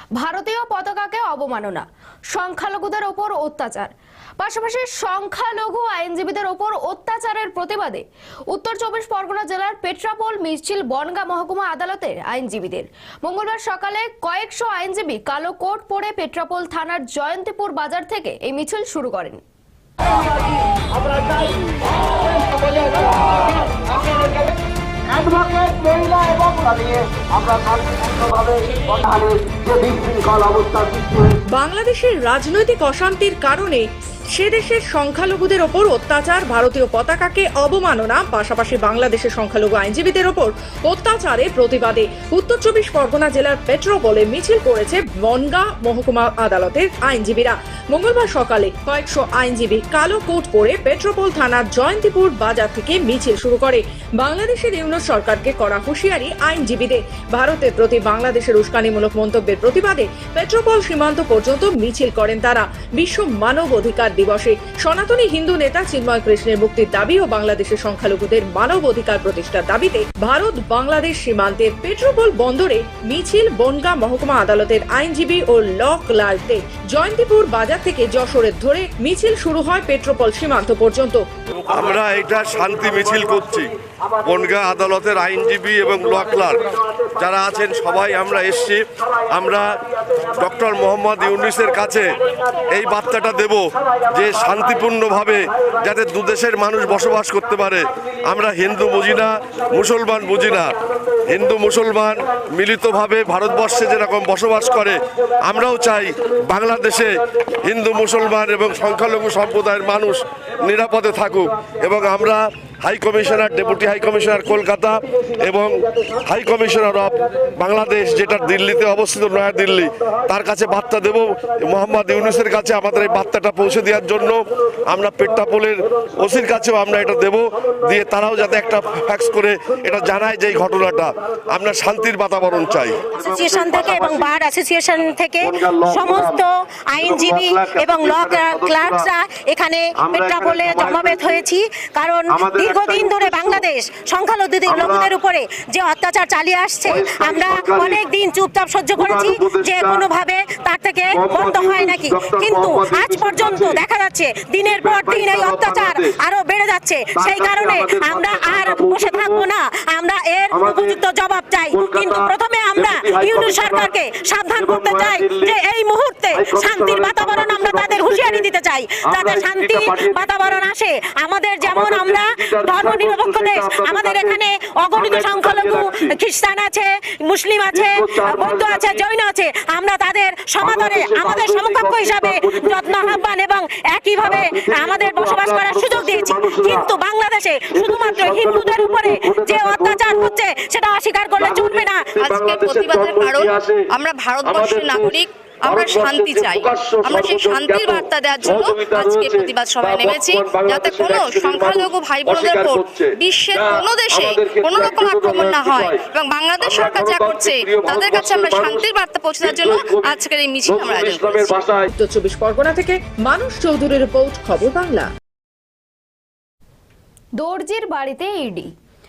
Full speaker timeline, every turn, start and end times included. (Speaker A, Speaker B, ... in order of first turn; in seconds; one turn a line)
Speaker A: 0.2-19.4
Speaker B: 31.5-81.2
Speaker C: 81.7-83.7
Speaker C: 84.2-92.1
Speaker C: 92.7-100.8
Speaker C: 101.3-124.4
Speaker C: 124.9-134.3
Speaker D: 133.2-192.2
Speaker C: 135.4-136.4
Speaker C: 137.0-139.1
Speaker C: 140.0-141.4
Speaker C: 142.3-143.7
Speaker C: 144.7-145.1
Speaker C: 146.8-148.0
Speaker C: 148.9-150.1
Speaker C: 151.1-153.8
Speaker C: 154.6-156.2
Speaker C: 157.1-159.5
Speaker C: 160.5-161.0
Speaker C: 161.7-163.9
Speaker C: 164.5-165.6
Speaker C: 166.3-168.5
Speaker C: 169.0-170.6
Speaker C: 171.6-176.2
Speaker C: 177.7-179.0
Speaker C: 180.6-183.2
Speaker C: 184.2-186.9
Speaker C: 187.7-190.4
Speaker C: 191.4-193.9
Speaker E: 192.2-211.6
Speaker C: 194.4-211.9
Speaker B: 211.9-215.1
Speaker A: 217.4-218.7